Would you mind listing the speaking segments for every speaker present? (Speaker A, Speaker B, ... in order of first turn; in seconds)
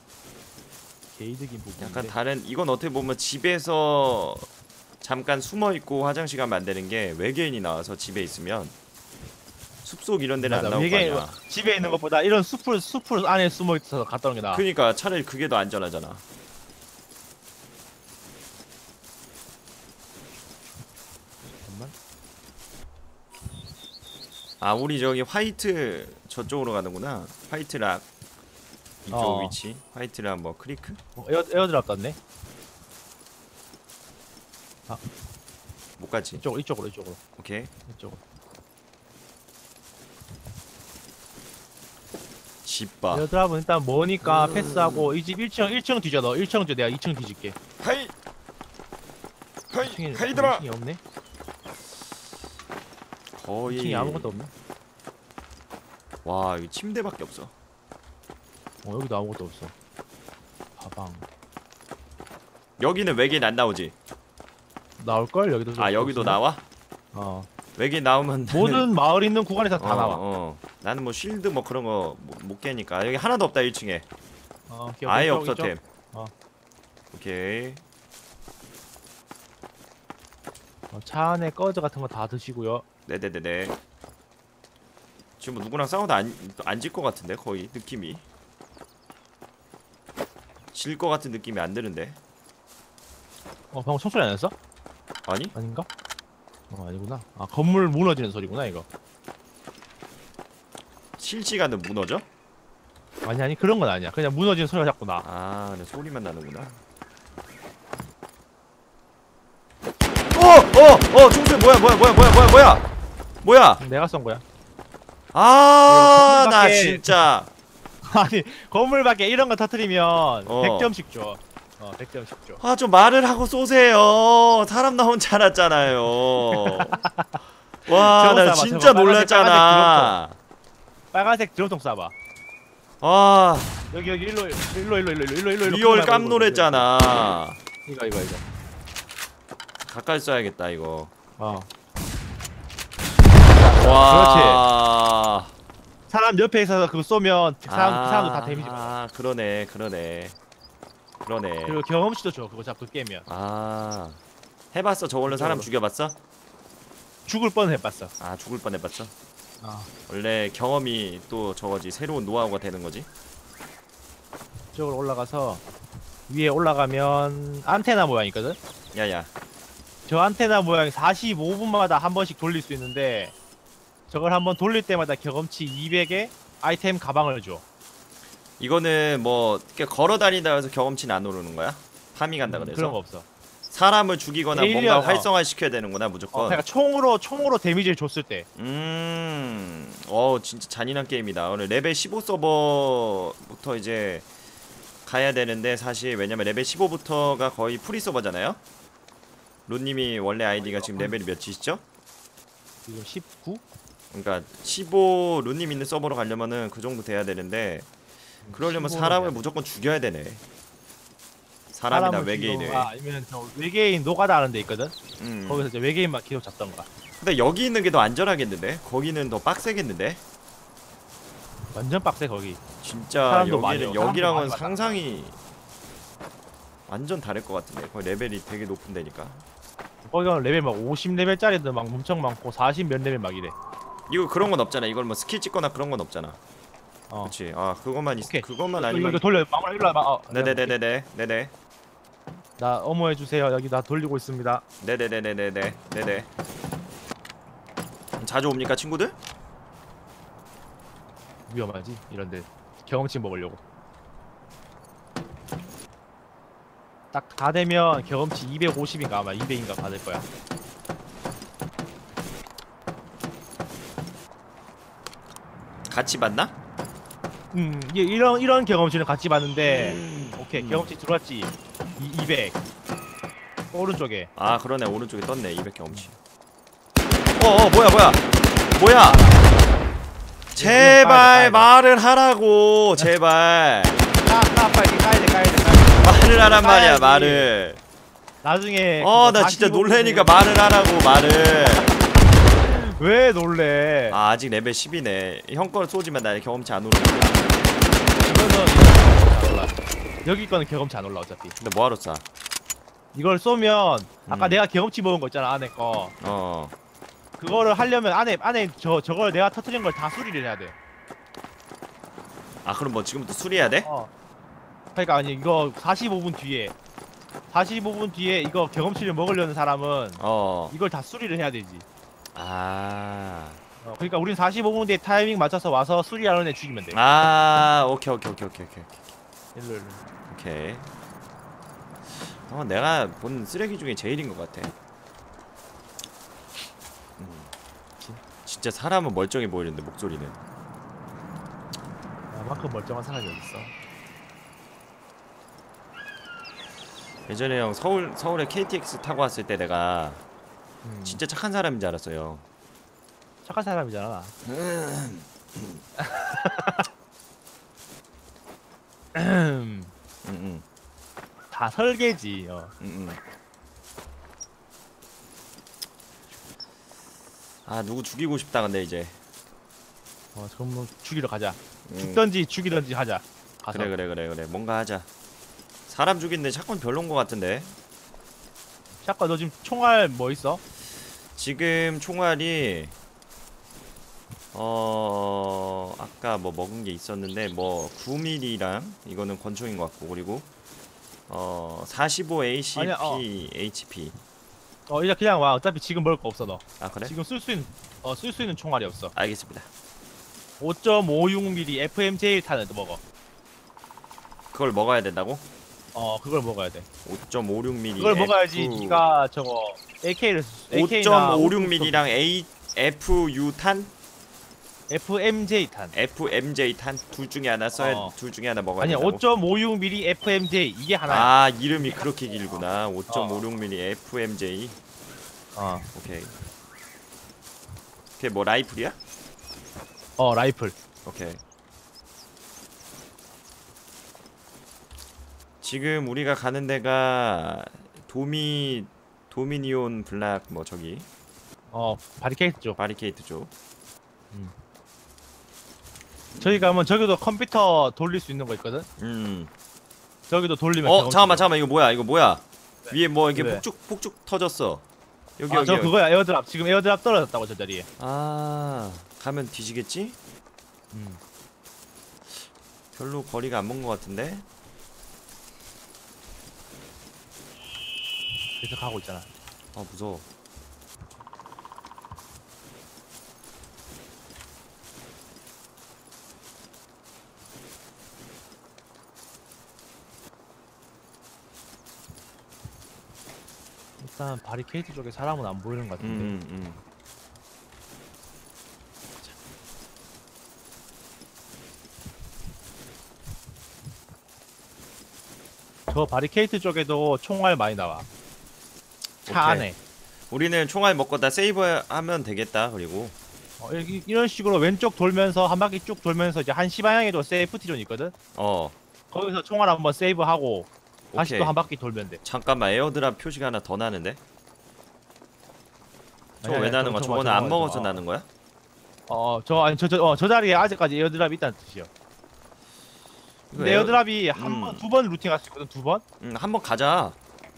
Speaker A: 1.1-2.1, 10.4-14.6, 21.6-21.9, 29.1-29.6, 31.1-32.2, 36.3-37.2, 37.9-38.2, 43.1-47.6, 49.8-51.0, 53.7-54.5, 58.8-59.7, 60.8-61.2, 65.0-66.4, 67.1-67.5, 68.5-70.2, 74.7-76.3, 80.9-82.8, 93.7-94.5, 95.5-95.9, 96.7-98.8, 103.2-105.2, 113.8-114.4, 115.9-117.1, 118.0-122.6, 126.4-130.1, 131.1-132.1, 133.9-136.9, 137.8-138.4, 141.4-141.7, 143.4-144.6, 146.1-148.9, 151.6-153.2, 155.2-155.7, 157.3-158.1, 159.6-159.9, 164.7-165.6, 166.3-168.6, 170.1-173.3, 174.1-177.6, 182.4-183.3, 184.5-185.3, 186.3-188.4, 200.6-201.2, 202.8-203.6, 208.4-209.4, 211.9-214.9, 215.5-216.9, 221.7-222.6, 223.2-225.0, 230.0-233.5, 237.1-237.3, 238.2-240.7, 242.6-244.6, 251.5-253.6, 257.1-260.2, 267.5-272.6, 273.7-274.3, 278.9-279.7, 280.6-281.7, 284.2-287.5, 288.4-290.3, 292.6-294.2, 298.1-301.6, 303.1-306.1, 307.4-310.7, 313.8-314.1, 314.9-316.7, 317.5-321.8, 323.8-327.0, 329.5-330.0, 342.3-343.7, 350.8-351.2, 353.4-354.3, 356.0-356.9, 359.1-359.9, 361.5-362.7, 370.3-373.9, 379.0-380.6, 392.7-393.2, 394.9-399.1, 400.6-403.0, 405.9-406.9, 408.0-412.0, 414.9-415.9, 417.7-418.1, 418.8-422.1, 423.1-423.4, 425.5-425.9, 430.2-430.8, 441.7-442.8, 446.4-448.9, 450.3-451.5, 452.8-453.6, 455.5-457.9, 460.9-461.2, 468.6-469.3, 484.0-486.4, 495.9-498.1, 499.2-499.8, 503.6-508.1, 509.1-512.2, 516.4-518.0, 519.1-521.9, 523.5-526.0
Speaker B: 1.8-4.5, 5.0-8.7, 9.8-11.4, 14.5-16.2, 24.6-28.1, 29.0-31.0, 36.0-36.4, 37.4-37.7, 42.6-43.2, 44.2-45.1, 47.8-48.1, 49.7-50.6, 53.3-54.3, 56.2-57.5, 62.8-63.9, 65.8-66.6, 67.7-68.9, 69.8-74.0, 75.0-75.8, 77.1-77.8, 83.0-83.8, 85.4-88.2, 90.7-92.2, 95.2-95.5, 101.2-102.2, 105.2-106.8, 110.3-112.8, 113.4-113.8, 115.3-117.5, 120.5-120.9, 122.6-127.0, 127.8-130.4, 133.0-133.8, 135.6-137.6, 139.8-141.1, 143.8-145.5, 147.7-150.3, 151.2-151.8, 153.3-154.2, 154.7-156.2, 158.2-159.1, 160.1-163.1, 168.9-169.3, 178.6-183.0, 183.7-186.6, 188.6-194.2, 195.1-198.6, 199.7-201.8, 204.1-207.9, 208.5-210.4, 211.7-212.9, 215.2-215.7, 217.2-220.2, 222.8-225.4, 226.9-229.4, 234.1-236.4, 237.2-239.2, 240.3-241.5, 244.8-246.3, 248.2-249.2, 265.9-266.5, 269.6-270.9, 274.4-276.1, 277.4-279.3, 280.5-284.0, 286.0-287.8, 289.0-292.0, 294.1-297.6, 301.6-302.2, 304.3-304.6, 306.2-306.7, 312.6-313.9, 320.2-320.7, 322.3-323.6, 326.9-329.1, 330.3-330.9, 332.1-334.7, 337.2-337.5, 338.4-340.4, 347.3-350.2, 351.0-352.4, 354.4-355.8, 360.2-360.6, 362.8-363.2, 367.6-369.2, 371.9-372.2, 373.7-375.1, 375.9-377.7, 381.4-382.9, 384.5-390.5, 391.3-394.1, 396.8-397.1, 399.1-399.7, 404.5-405.4, 407.0-409.0, 410.7-413.9, 415.9-419.2, 421.1-424.8, 425.9-426.3, 428.2-429.0, 431.0-431.4, 435.6-441.1, 442.8-443.5, 446.3-446.7, 449.0-449.5, 450.8-454.8, 455.4-455.9, 458.0-460.2, 462.9-464.4, 469.7-470.2, 486.0-486.8, 499.2-499.7, 500.3-503.1, 508.3-508.7, 511.1-511.5, 512.2-514.2, 516.4-518.3, 523.5-524.8, 526.2-527.1